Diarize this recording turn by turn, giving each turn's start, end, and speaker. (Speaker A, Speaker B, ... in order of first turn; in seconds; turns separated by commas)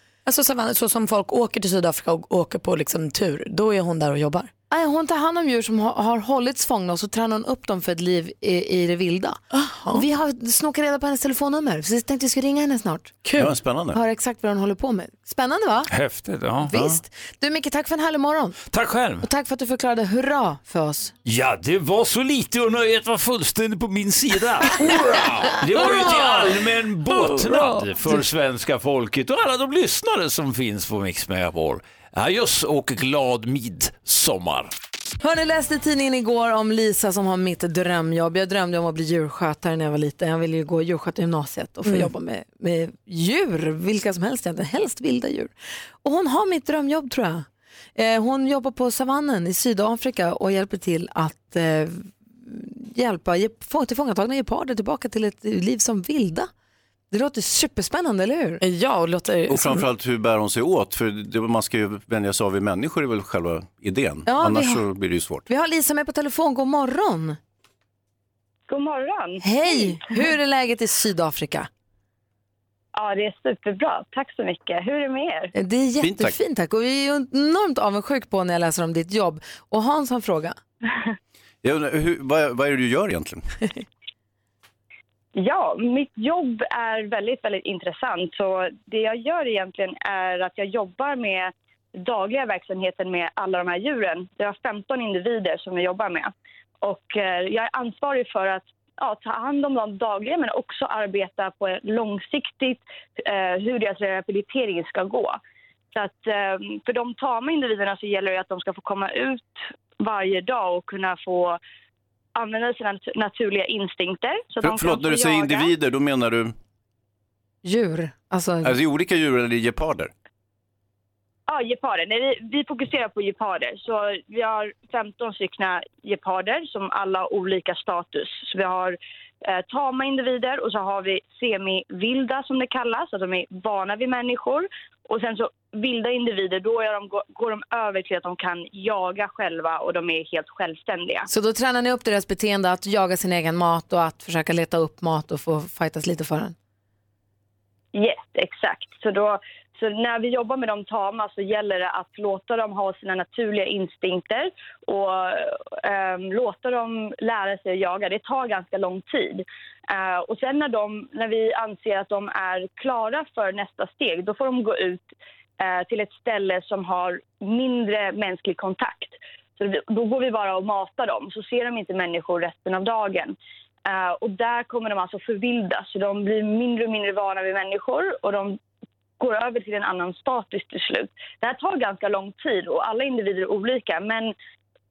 Speaker A: 0.2-4.5, Speaker B: 4.7-13.2, Speaker A: 9.5-10.0, Speaker A: 13.2-13.5, Speaker C: 13.4-14.0, Speaker B: 13.9-15.9, Speaker D: 15.9-16.8, Speaker B: 16.6-18.6, Speaker C: 16.7-17.0, Speaker D: 18.7-19.3, Speaker B: 19.2-21.1, Speaker D: 21.2-34.7, Speaker A: 25.5-27.9, Speaker B: 35.2-45.5, Speaker B: 46.0-56.5, Speaker B: 57.1-58.6, Speaker A: 58.6-59.8, Speaker C: 59.5-65.4, Speaker B: 64.2-64.8, Speaker B: 65.5-67.4, Speaker E: 68.7-70.3, Speaker B: 69.4-71.7, Speaker E: 72.9-75.5, Speaker B: 75.5-80.6, Speaker C: 76.0-76.4, Speaker C: 81.6-83.4, Speaker E: 85.3-96.3, Speaker E: 96.8-105.4, Speaker E: 105.9-111.6, Speaker E: 112.3-115.7, Speaker C: 114.6-116.5, Speaker B: 117.6-118.7, Speaker C: 118.6-120.1, Speaker E: 121.5-141.3, Speaker B: 141.3-146.5, Speaker E: 147.9-165.1, Speaker E: 165.6-173.3, Speaker E: 173.8-178.6, Speaker E: 179.2-184.3